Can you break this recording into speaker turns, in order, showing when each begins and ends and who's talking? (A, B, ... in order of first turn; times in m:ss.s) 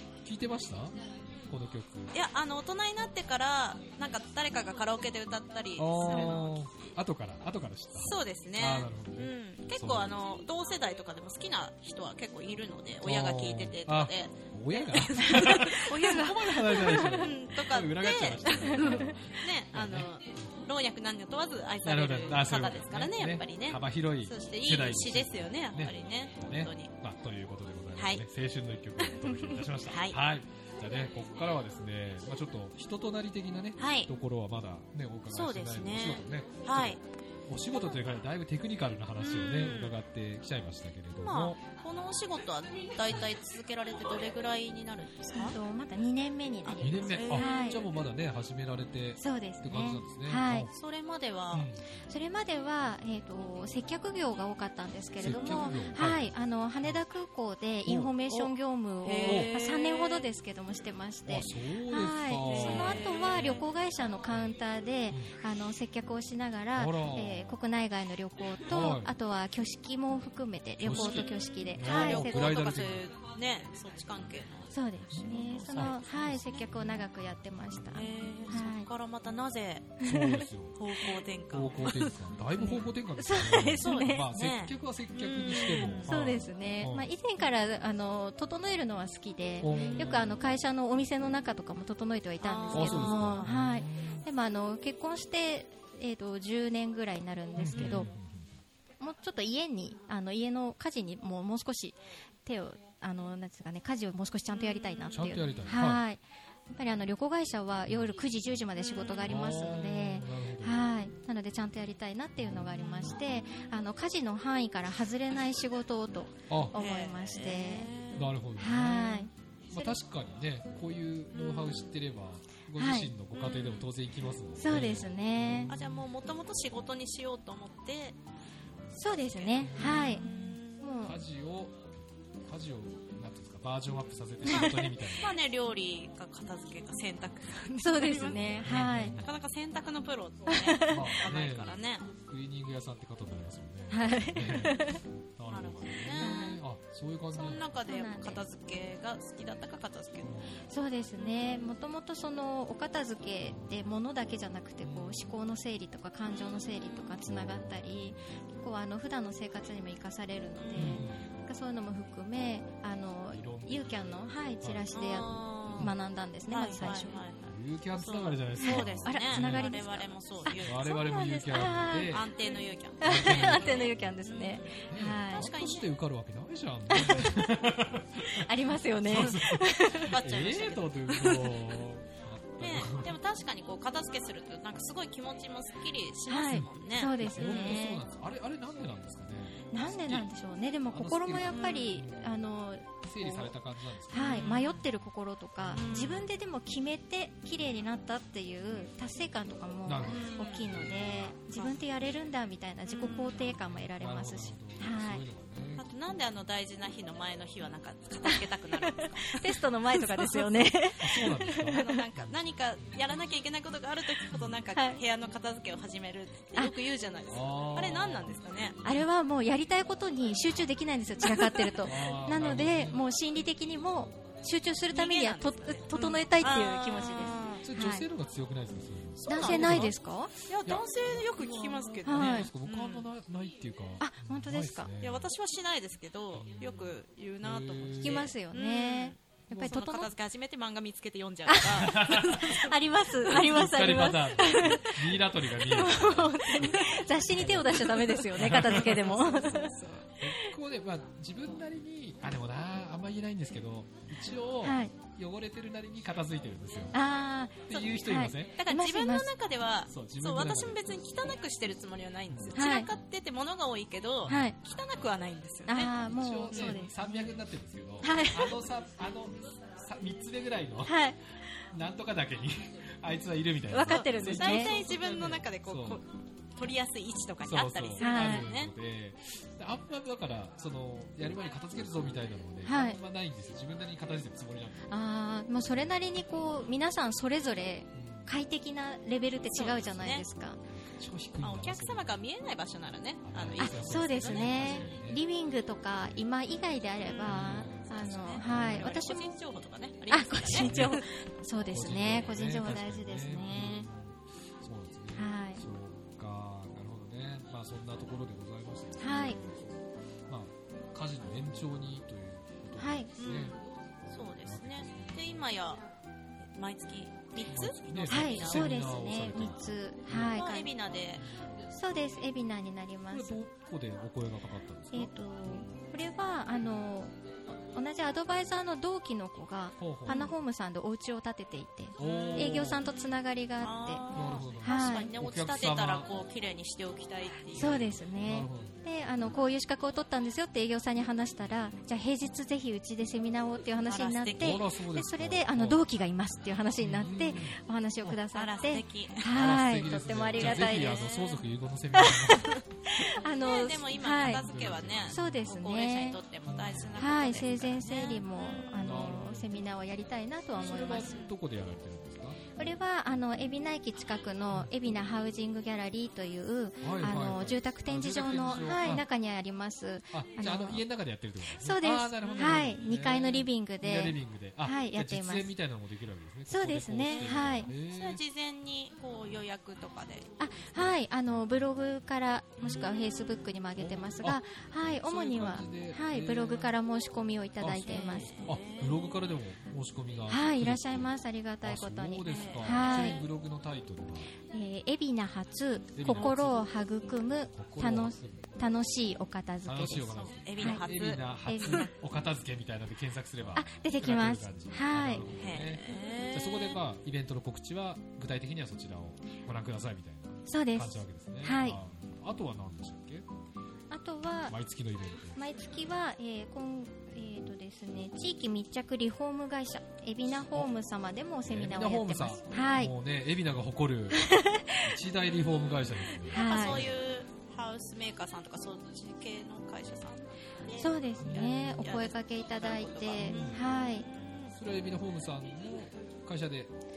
0:00.2-0:02.2 A
0:02.1-0:06.6 B
0:05.8-0:10.2 A
0:08.0-0:26.9 B
0:13.0-0:20.5 A
0:16.0-0:17.2 C
0:21.8-0:41.6 A
0:28.0-0:28.2 B
0:29.0-0:30.2 B
0:33.8-0:34.1 B
0:35.3-0:37.0 B
0:39.2-0:40.0 B
0:41.2-0:45.6 B
0:45.3-0:47.8 C
0:46.6-0:47.5 B
0:46.8-0:50.7 A
0:49.2-0:50.7 C
0:50.7-0:51.7 B
0:51.5-0:51.9 A
0:52.1-1:12.6 C
0:55.2-0:57.0 A
0:57.8-0:58.1 A
0:59.0-1:00.3 B
0:59.2-0:59.5 A
1:01.3-1:03.1 A
1:02.4-1:03.6 B
1:06.8-1:07.6 A
1:08.7-1:09.1 A
1:10.8-1:13.1 A
1:11.8-1:16.7 B
1:14.7-1:18.9 C
1:15.1-1:17.1 A
1:17.9-1:19.9 B
1:20.0-1:20.5 C
1:20.0-1:20.8 A
1:20.7-1:22.9 B
1:21.5-1:27.1 A
1:23.2-1:24.3 C
1:23.8-1:26.1 B
1:26.0-1:38.1 C
1:29.6-1:30.4 A
1:29.7-1:30.2 B
1:32.4-1:33.5 B
1:32.7-1:34.2 A
1:37.6-1:38.5 A
1:37.8-1:38.0 B
1:39.0-1:57.9 C
1:45.1-1:46.0 A
1:49.2-1:50.8 A
1:52.4-1:52.9 A
1:56.5-1:56.8 A
1:56.7-1:58.3 B
1:58.1-2:06.0 A
1:58.6-2:00.0 C
2:01.3-2:01.9 B
2:02.8-2:03.1 C
2:03.3-2:03.9 B
2:04.6-2:05.7 C
2:05.7-2:08.2 B
2:08.9-2:11.0 B
2:08.9-2:11.2 C
2:09.6-2:10.4 A
2:11.0-2:15.4 A
2:14.4-2:22.1 B
2:17.8-2:19.2 C
2:18.6-2:19.3 A
2:20.5-2:21.0 C
2:20.9-2:27.7 A
2:23.9-2:25.0 C
2:25.5-2:26.6 B
2:26.2-2:26.6 C
2:27.3-2:30.4 B
2:27.8-2:28.4 C
2:30.2-2:30.6 A
2:30.7-2:47.2 C
2:33.4-2:33.8 A
2:34.8-2:35.4 A
2:36.3-2:37.2 B
2:37.3-2:38.0 A
2:40.6-2:41.0 B
2:40.8-2:41.3 A
2:43.3-2:44.9 A
2:44.9-2:45.9 B
2:46.5-2:50.9 B
2:47.4-2:49.8 A
2:48.6-2:52.2 C
2:50.6-2:52.3 A
2:51.5-2:55.8 B
2:53.0-2:54.0 A
2:53.0-2:55.5 C
2:54.9-3:03.2 A
2:56.9-2:57.6 C
2:58.3-3:00.1 C
2:59.1-3:01.8 B
3:02.6-3:07.8 B
3:06.3-3:08.0 C
3:06.5-3:10.3 A
3:09.7-3:13.6 C
3:10.9-3:12.5 A
3:11.5-3:11.9 B
3:13.0-3:14.7 A
3:14.1-3:25.2 C
3:14.1-3:14.8 B
3:15.6-3:16.2 A
3:15.7-3:16.3 B
3:19.8-3:21.3 A
3:20.0-3:20.9 B
3:22.9-3:23.6 B
3:23.6-3:25.9 A
3:25.8-3:30.5 B
3:28.2-3:32.0 C
3:31.0-3:33.1 A
3:31.6-3:38.8 B
3:34.7-3:35.0 C
3:37.3-3:38.4 A
3:38.8-3:48.0 C
3:41.3-3:41.7 B
3:41.8-3:43.0 A
3:44.9-3:47.6 B
3:47.6-3:50.0 A
3:49.2-3:49.9 B
3:49.3-3:50.3 C
3:50.5-3:53.1 B
3:50.6-3:55.3 A
3:52.0-3:52.5 C
3:54.0-3:54.9 C
3:55.0-4:02.7 B
3:56.3-3:58.3 A
3:58.0-4:00.1 C
4:01.4-4:10.5 C
4:01.7-4:02.6 A
4:03.2-4:09.5 A
4:08.4-4:10.0 B
4:10.2-4:17.0 A
4:14.6-4:14.9 C
4:16.9-4:19.3 C
4:17.7-4:18.6 A
4:18.5-4:25.9 B
4:19.9-4:21.0 A
4:22.3-4:22.6 A
4:22.6-4:22.9 C
4:24.2-4:24.5 A
4:24.3-4:24.6 C
4:25.7-4:27.2 C
4:26.0-4:31.1 A
4:26.5-4:26.8 B
4:28.0-4:28.6 C
4:30.8-4:31.2 C
4:31.7-4:36.0 A
4:33.7-4:34.7 C
4:33.9-4:38.7 B
4:37.4-4:44.9 A
4:38.0-4:38.5 C
4:42.6-4:43.0 C
4:44.9-4:50.6 C
4:47.9-4:48.3 A
4:49.5-4:50.2 B
4:50.7-4:52.2 A
4:51.4-4:55.0 B
4:53.2-4:55.2 A
4:53.6-4:59.3 C
4:57.0-5:01.0 B
4:57.2-4:58.9 A
5:00.1-5:03.9 C
5:00.6-5:01.0 A
5:01.7-5:13.6 A
5:05.1-5:05.6 C
5:09.0-5:09.4 C
5:12.8-5:13.1 C
5:13.2-5:15.8 B
5:14.4-5:15.5 A
5:16.4-5:18.7 B
5:17.5-5:20.4 A
5:18.1-5:20.7 C
5:20.2-5:21.2 B
5:21.2-5:21.6 A
5:21.7-5:23.4 C
5:23.1-5:25.7 A
5:24.9-5:27.2 C
5:27.7-5:34.0 C
5:29.8-5:30.3 A
5:30.1-5:30.3 B
5:32.0-5:32.8 A
5:32.0-5:33.0 B
5:33.6-5:37.9 B
5:34.1-5:36.1 A
5:34.6-5:35.1 C
5:37.5-5:51.0 C
5:37.6-5:38.8 A
5:43.8-5:44.6 B
5:44.3-5:45.8 A
5:46.8-5:48.2 A
5:48.3-5:49.5 B
5:49.3-5:52.6 A
5:50.4-5:51.4 B
5:51.9-5:54.4 C
5:53.4-5:58.7 B
5:54.3-5:55.4 A
5:55.1-5:56.2 C
5:56.4-5:57.2 A
5:57.0-6:01.2 C
5:58.8-5:59.5 A
6:00.6-6:02.4 A
6:02.5-6:10.8 C
6:06.8-6:09.0 A
6:10.1-6:18.2 A
6:11.5-6:15.5 C
6:12.2-6:12.7 B
6:16.5-6:17.7 C
6:17.1-6:20.3 B
6:20.4-6:28.3 C
6:23.8-6:26.7 A
6:27.6-6:34.3 A
6:27.8-6:29.0 B
6:30.3-6:33.2 C
6:32.2-6:33.1 B
6:34.5-6:40.8 C
6:35.9-6:36.6 A
6:37.5-6:38.6 A
6:39.6-6:53.2 A
6:40.0-6:41.9 B
6:41.4-6:41.8 C
6:43.5-6:45.2 C
6:45.4-6:46.8 B
6:50.5-6:51.8 C
6:53.9-6:54.5 C
6:54.5-6:55.4 A
6:55.4-7:02.9 C
7:00.3-7:00.7 A
7:01.4-7:07.0 A
7:04.1-7:04.9 C
7:06.2-7:06.8 C
7:06.3-7:14.5 B
7:10.8-7:14.0 C
7:11.2-7:11.9 A
7:13.2-7:13.8 A
7:14.5-7:16.7 A